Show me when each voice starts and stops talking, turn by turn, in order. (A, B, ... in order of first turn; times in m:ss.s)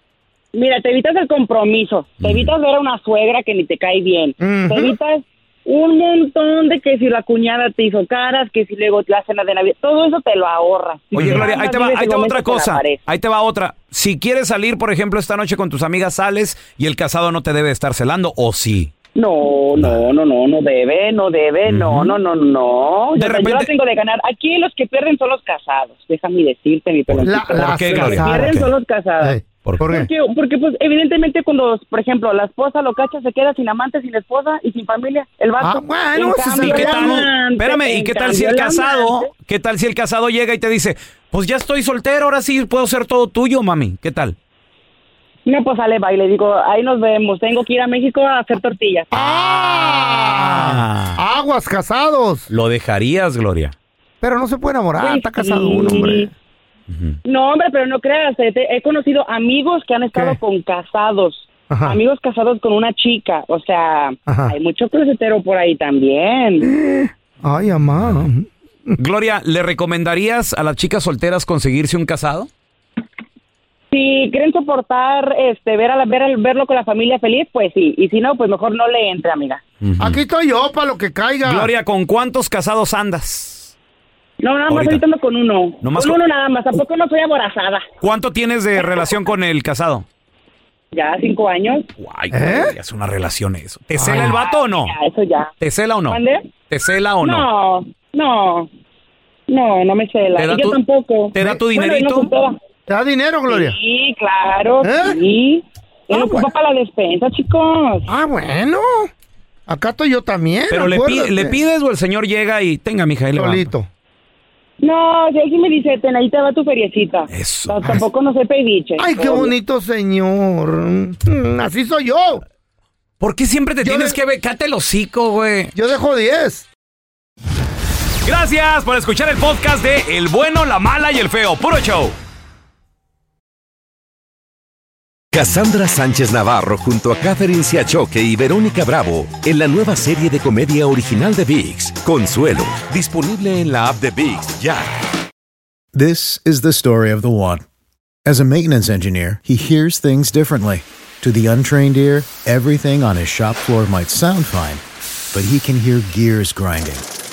0:00.5-0:13.0 A
0:02.2-0:02.5 B
0:04.4-0:04.9 C
0:11.1-0:18.9 B
0:11.2-0:11.5 C
0:19.1-0:39.3 A
0:19.8-0:20.1 B
0:21.6-0:22.1 B
0:23.2-0:23.7 B
0:27.1-0:28.7 B
0:27.2-0:28.7 C
0:29.2-0:30.1 C
0:35.6-0:37.3 C
0:36.5-0:44.4 B
0:45.4-0:49.1 A
0:49.1-0:52.4 C
0:49.2-0:51.2 B
0:52.5-0:53.7 B
0:54.2-0:56.3 C
0:55.0-0:56.3 A
0:56.9-0:57.2 B
0:57.2-1:06.7 A
1:01.7-1:02.0 C
1:04.2-1:04.6 C
1:06.6-1:09.0 C
1:09.0-1:12.5 B
1:13.9-1:19.6 A
1:19.8-1:20.2 B
1:20.0-1:21.7 C
1:21.4-1:23.7 B
1:24.4-1:27.9 A
1:24.7-1:25.0 B
1:25.8-1:26.2 B
1:28.0-1:30.0 B
1:28.8-1:29.1 A
1:30.9-1:31.9 A
1:32.0-1:34.9 B
1:32.3-1:32.7 C
1:33.9-1:34.4 C
1:34.1-1:35.5 A
1:35.6-1:37.5 B
1:36.1-1:36.5 A
1:37.2-1:38.7 A
1:39.5-1:42.6 A
1:40.4-1:40.8 B
1:41.3-1:42.3 B
1:42.9-1:43.8 C
1:43.5-1:48.1 A
1:44.8-1:45.2 C
1:46.1-1:46.5 C
1:48.1-1:49.1 C
1:49.7-1:51.6 C
1:50.7-1:53.6 B
1:53.4-1:53.9 C
1:54.8-1:59.5 A
1:57.3-1:58.0 B
1:59.0-2:02.4 C
2:03.2-2:05.7 B
2:03.8-2:04.2 C
2:05.7-2:06.7 C
2:08.2-2:12.1 B
2:15.3-2:24.9 D
2:25.9-2:27.6 E
2:28.2-2:34.8 E
2:35.3-2:37.0 E